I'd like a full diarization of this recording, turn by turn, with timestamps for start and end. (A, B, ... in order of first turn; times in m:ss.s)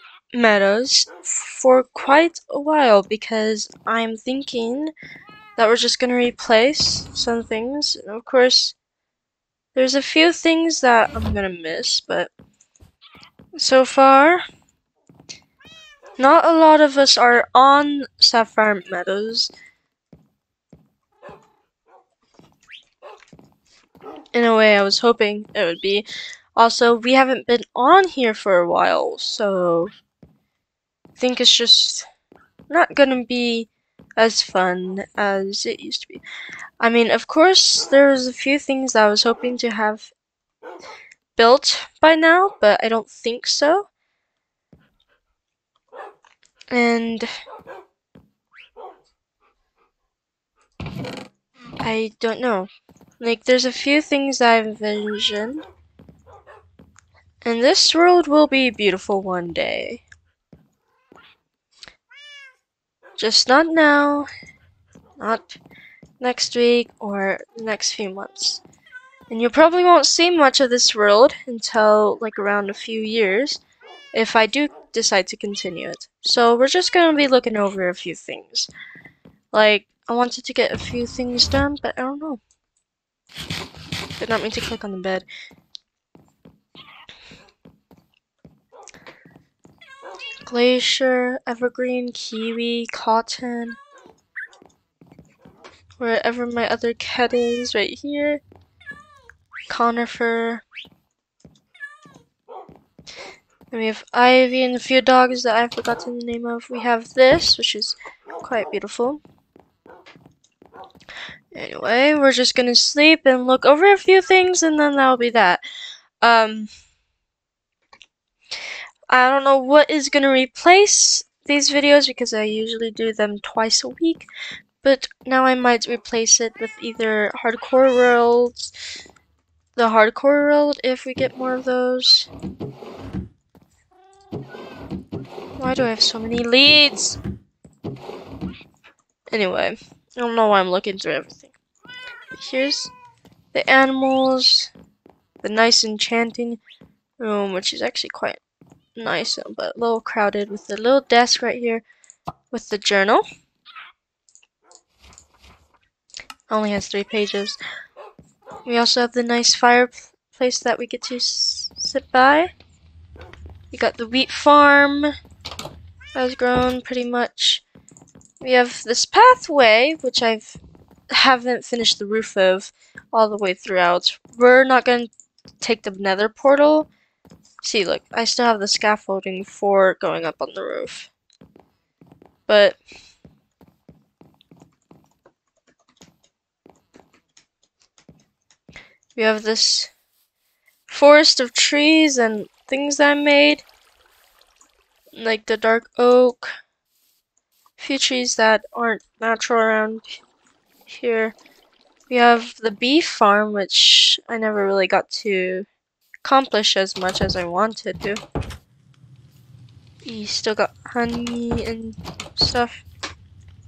0:00.3-0:04.9 A
0:05.6-0:08.8 A
0:09.7-0:12.3 A
0:13.6-0:14.4 A
0:16.2-0:19.5 A
0:24.3-0:29.9 A
0:31.2-0:32.0 A
0:32.7-0:36.2 A
0:36.8-0:40.1 A
0:41.4-0:43.9 A
0:46.7-0:47.3 A
0:51.8-0:52.7 A
0:53.2-0:55.6 A
0:57.4-1:00.0 A
1:03.2-1:04.3 A
1:05.2-1:05.6 A
1:06.2-1:08.6 A
1:09.3-1:13.6 A
1:14.1-1:18.7 A
1:19.5-1:22.4 A
1:24.2-1:25.2 A
1:30.4-1:33.8 A
1:36.0-1:38.4 A
1:39.7-1:40.6 A
1:43.7-1:49.2 A
1:51.5-1:55.6 A
1:56.2-1:56.7 A
1:59.1-2:04.3 A
2:04.8-2:08.7 A
2:09.8-2:12.3 A
2:15.6-2:17.2 A
2:19.3-2:21.5 A
2:22.3-2:22.9 A
2:23.5-2:24.7 A
2:25.4-2:26.6 A
2:27.2-2:28.4 A
2:29.0-2:31.8 A
2:32.5-2:33.2 A
2:36.5-2:37.6 A
2:38.6-2:42.5 A
2:43.7-2:45.1 A
2:46.1-2:47.6 A
2:48.4-2:56.9 A
2:57.6-3:01.1 A
3:02.5-3:02.8 A
3:09.2-3:09.9 A
3:10.9-3:13.6 A
3:15.1-3:16.5 A
3:17.8-3:20.2 A
3:20.9-3:21.3 A
3:22.1-3:25.7 A
3:26.2-3:28.2 A
3:30.0-3:32.8 A